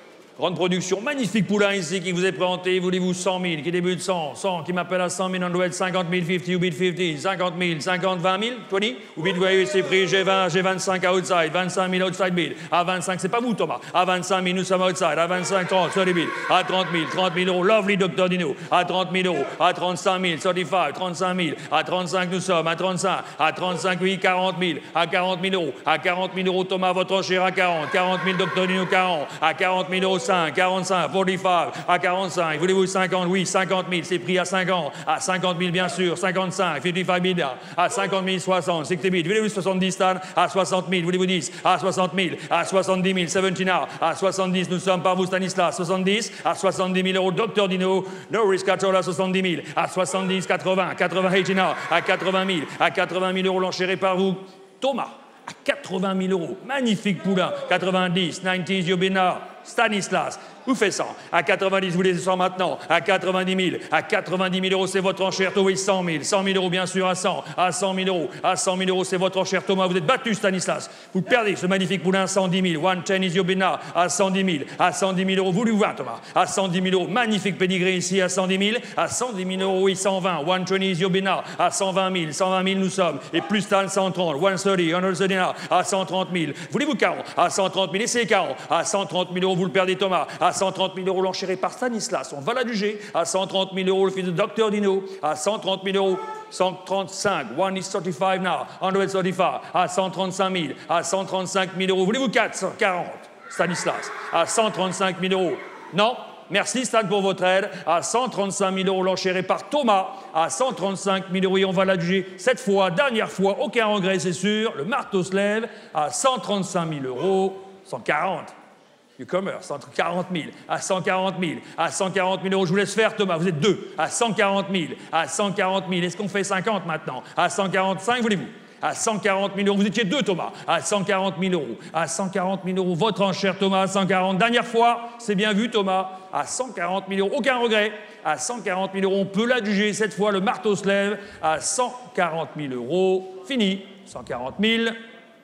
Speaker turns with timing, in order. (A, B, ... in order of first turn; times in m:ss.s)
0:00.4-1:58.5 A
1:59.2-2:25.0 A